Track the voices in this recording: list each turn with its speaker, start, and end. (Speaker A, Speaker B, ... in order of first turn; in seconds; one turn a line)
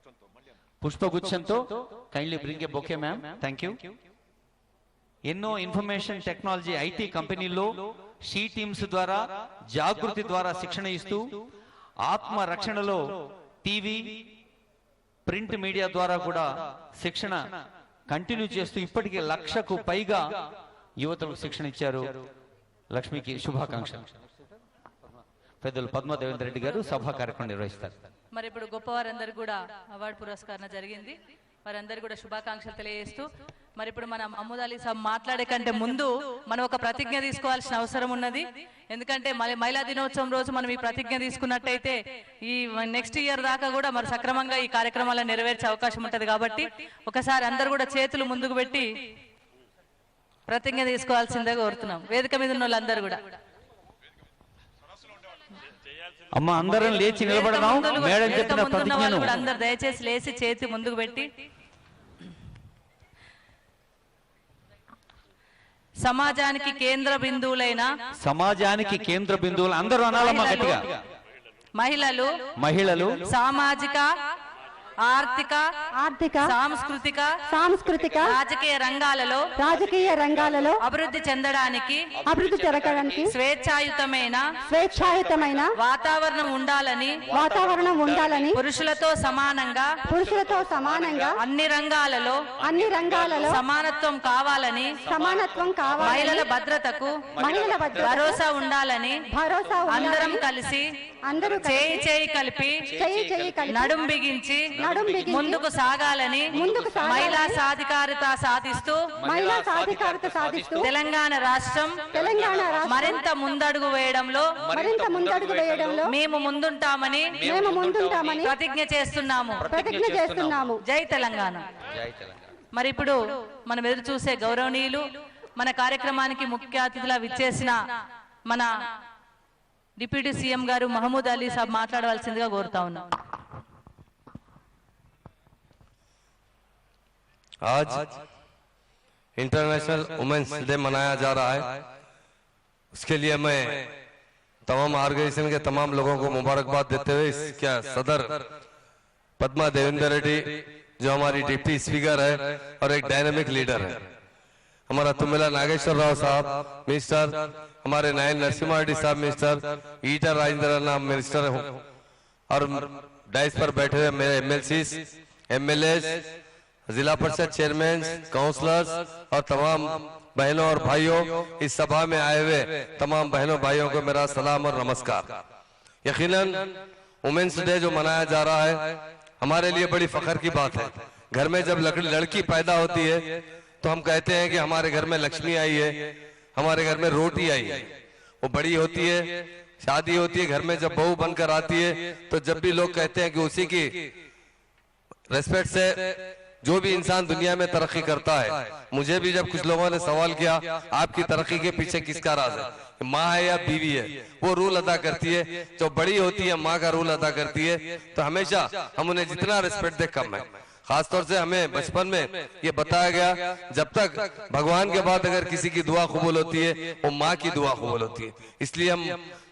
Speaker A: 0.8-3.8
Speaker A: 5.3-7.7
Speaker A: 8.2-11.4
Speaker A: 12.1-14.2
Speaker A: 15.2-17.4
Speaker A: 18.1-20.2
Speaker A: 21.0-22.0
Speaker A: 22.9-24.1
Speaker A: 25.6-28.1
Speaker B: 28.3-48.9
Speaker B: 50.5-53.2
Speaker A: 56.3-59.3
Speaker B: 57.1-61.3
Speaker B: 66.0-67.9
Speaker A: 68.2-71.0
Speaker B: 70.2-70.8
Speaker B: 71.8-72.3
Speaker A: 72.6-73.2
Speaker B: 73.3-74.1
Speaker B: 75.1-75.6
Speaker C: 76.0-76.4
Speaker B: 76.5-77.3
Speaker C: 77.5-78.3
Speaker B: 78.2-79.4
Speaker C: 79.6-80.8
Speaker B: 80.8-82.0
Speaker C: 82.3-83.3
Speaker B: 83.3-84.4
Speaker C: 84.7-85.7
Speaker B: 85.8-87.2
Speaker A: 87.3-88.2
Speaker C: 87.3-88.6
Speaker B: 88.5-89.9
Speaker C: 90.1-91.3
Speaker A: 90.4-91.2
Speaker B: 91.4-92.4
Speaker C: 92.6-93.6
Speaker A: 92.6-93.5
Speaker B: 93.4-95.0
Speaker A: 95.0-96.3
Speaker C: 95.1-96.5
Speaker B: 96.0-97.2
Speaker A: 97.3-98.3
Speaker C: 97.4-98.4
Speaker B: 98.0-99.2
Speaker C: 99.3-100.4
Speaker B: 99.9-100.8
Speaker C: 101.3-102.0
Speaker B: 101.6-102.8
Speaker A: 102.9-103.6
Speaker C: 103.0-103.9
Speaker B: 103.7-104.6
Speaker C: 104.8-105.6
Speaker A: 104.8-105.4
Speaker B: 105.2-109.0
Speaker A: 106.5-107.3
Speaker C: 106.5-107.6
Speaker A: 109.2-110.9
Speaker C: 109.2-110.9
Speaker B: 110.8-112.0
Speaker A: 112.1-113.0
Speaker C: 112.1-113.2
Speaker B: 112.8-114.5
Speaker A: 114.6-116.1
Speaker C: 114.7-116.1
Speaker B: 116.1-117.4
Speaker A: 117.4-118.4
Speaker C: 117.5-118.5
Speaker B: 118.4-119.7
Speaker A: 119.6-120.7
Speaker C: 119.7-120.8
Speaker B: 120.8-121.7
Speaker A: 121.9-122.4
Speaker B: 122.7-127.8
Speaker B: 130.0-133.0
Speaker D: 137.6-138.2
Speaker D: 139.3-141.8
Speaker D: 142.9-143.9
Speaker D: 144.7-148.4
Speaker D: 149.4-154.0
Speaker D: 154.9-161.8
Speaker D: 162.5-166.3
Speaker D: 166.9-175.4
Speaker D: 176.0-194.1
Speaker D: 195.3-219.2